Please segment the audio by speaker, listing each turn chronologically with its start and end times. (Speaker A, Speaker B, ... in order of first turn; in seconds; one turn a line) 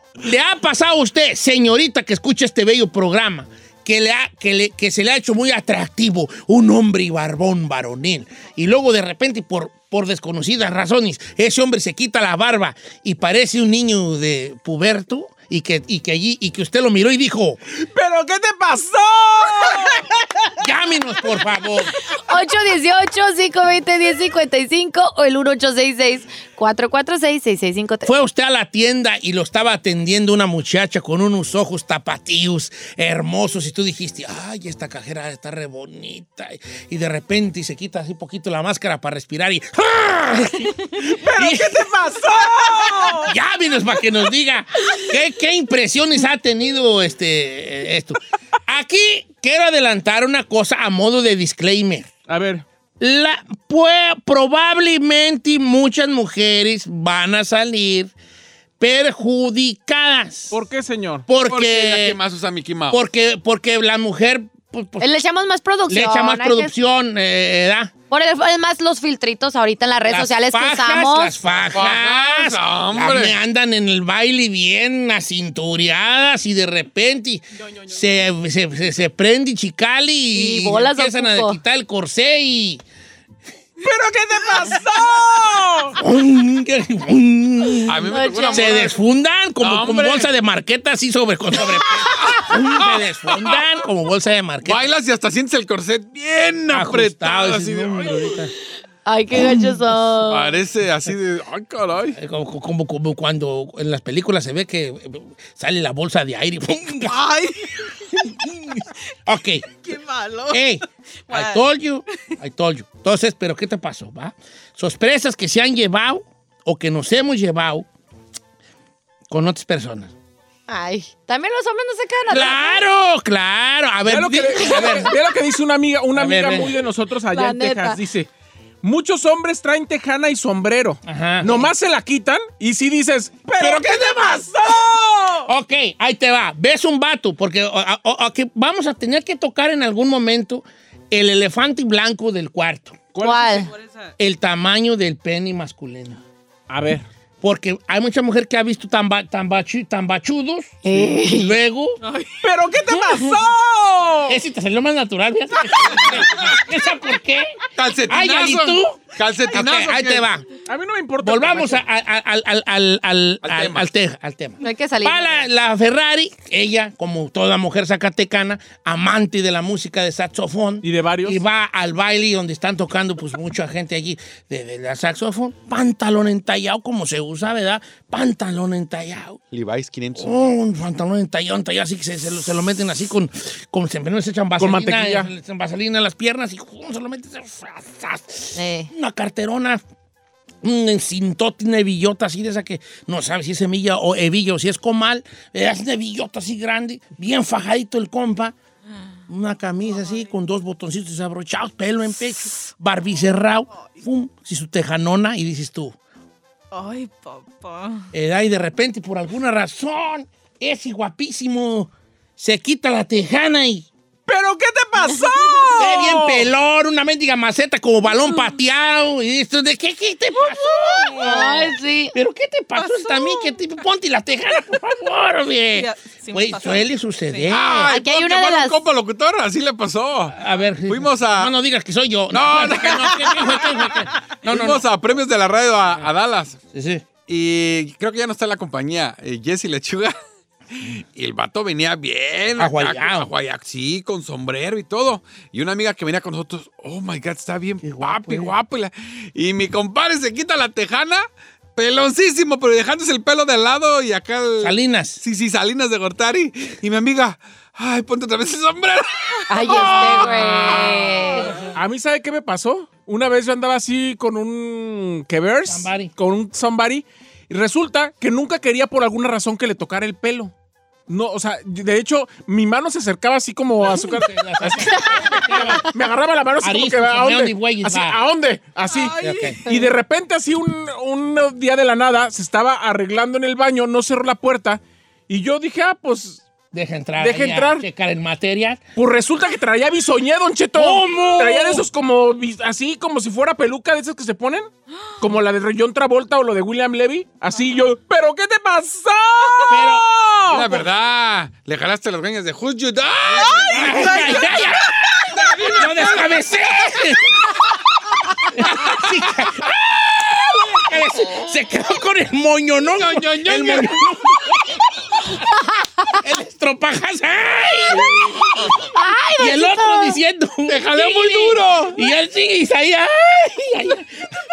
Speaker A: 0.2-17.6
Speaker B: 17.8-20.0
Speaker A: 20.6-21.9
Speaker C: 22.3-28.1
Speaker A: 28.1-41.9
Speaker B: 41.3-43.2
Speaker A: 43.0-52.1
Speaker B: 52.3-52.6
Speaker A: 53.0-58.1
Speaker A: 58.8-60.6
Speaker B: 60.5-61.3
Speaker A: 61.3-62.2
Speaker D: 61.4-63.0
Speaker A: 62.9-65.1
Speaker C: 65.0-66.7
Speaker A: 65.9-67.9
Speaker C: 68.1-71.3
Speaker A: 70.1-82.8
Speaker D: 71.6-73.4
Speaker E: 77.6-78.2
Speaker C: 80.3-81.6
Speaker B: 83.8-86.0
Speaker E: 83.9-85.9
Speaker A: 86.0-94.8
Speaker D: 87.9-88.9
Speaker C: 88.1-88.9
Speaker D: 89.6-90.3
Speaker D: 92.1-93.5
Speaker D: 94.6-98.3
Speaker A: 96.7-98.5
Speaker C: 99.1-100.6
Speaker A: 99.3-99.9
Speaker D: 100.2-102.2
Speaker A: 102.2-107.3
Speaker E: 107.0-108.3
Speaker A: 109.3-109.7
Speaker E: 109.8-110.6
Speaker A: 110.5-117.9
Speaker E: 111.3-111.6
Speaker A: 119.3-120.1
Speaker C: 120.7-122.8
Speaker A: 122.3-125.2
Speaker B: 124.0-128.3
Speaker A: 126.1-126.8
Speaker C: 127.3-128.0
Speaker B: 128.8-135.0
Speaker A: 131.1-131.7
Speaker E: 133.6-135.4
Speaker A: 135.5-143.0
Speaker B: 143.2-143.6
Speaker C: 143.2-143.7
Speaker E: 143.6-144.1
Speaker A: 144.2-146.2
Speaker B: 146.7-147.1
Speaker A: 147.4-152.0
Speaker C: 150.8-151.6
Speaker E: 152.0-152.4
Speaker B: 152.4-154.4
Speaker A: 154.3-160.5
Speaker D: 157.8-160.2
Speaker B: 160.7-161.8
Speaker A: 161.2-179.4
Speaker D: 163.4-163.8
Speaker C: 164.6-165.4
Speaker B: 170.8-171.4
Speaker D: 179.5-180.4
Speaker A: 180.2-189.8
Speaker B: 184.6-185.3
Speaker C: 188.6-188.9
Speaker A: 190.6-198.6
Speaker A: 199.3-206.0
Speaker E: 199.9-200.2
Speaker E: 206.7-208.1
Speaker A: 208.1-213.9
Speaker B: 214.3-216.5
Speaker E: 214.6-216.1
Speaker A: 215.8-227.9
Speaker E: 220.5-221.0
Speaker C: 221.1-222.2
Speaker E: 222.8-223.6
Speaker E: 225.7-227.6
Speaker D: 227.5-230.4
Speaker C: 227.9-228.8
Speaker A: 230.3-234.9
Speaker D: 230.9-231.5
Speaker D: 232.3-233.6
Speaker D: 234.4-236.6
Speaker A: 236.7-237.1
Speaker D: 237.2-240.2
Speaker D: 240.7-251.2
Speaker A: 242.6-243.3
Speaker A: 247.8-248.5
Speaker D: 251.8-259.3
Speaker A: 254.6-255.2
Speaker C: 259.5-261.5
Speaker A: 259.6-261.8
Speaker B: 261.8-270.5
Speaker A: 265.7-266.1
Speaker B: 271.1-275.0
Speaker A: 273.8-275.9
Speaker C: 275.1-275.8
Speaker B: 275.8-286.4
Speaker A: 276.6-278.2
Speaker E: 278.9-279.6
Speaker A: 279.2-279.6
Speaker A: 286.7-288.8
Speaker B: 287.2-287.9
Speaker B: 289.0-300.9
Speaker A: 290.8-291.9
Speaker A: 299.7-300.1
Speaker D: 300.5-304.6
Speaker E: 303.6-304.0
Speaker A: 303.7-304.9
Speaker D: 305.2-306.5
Speaker A: 305.6-307.5
Speaker A: 308.6-315.4
Speaker D: 313.0-314.0
Speaker A: 316.1-318.7
Speaker D: 318.1-318.4
Speaker C: 318.9-320.2
Speaker A: 319.4-324.3
Speaker D: 320.7-322.0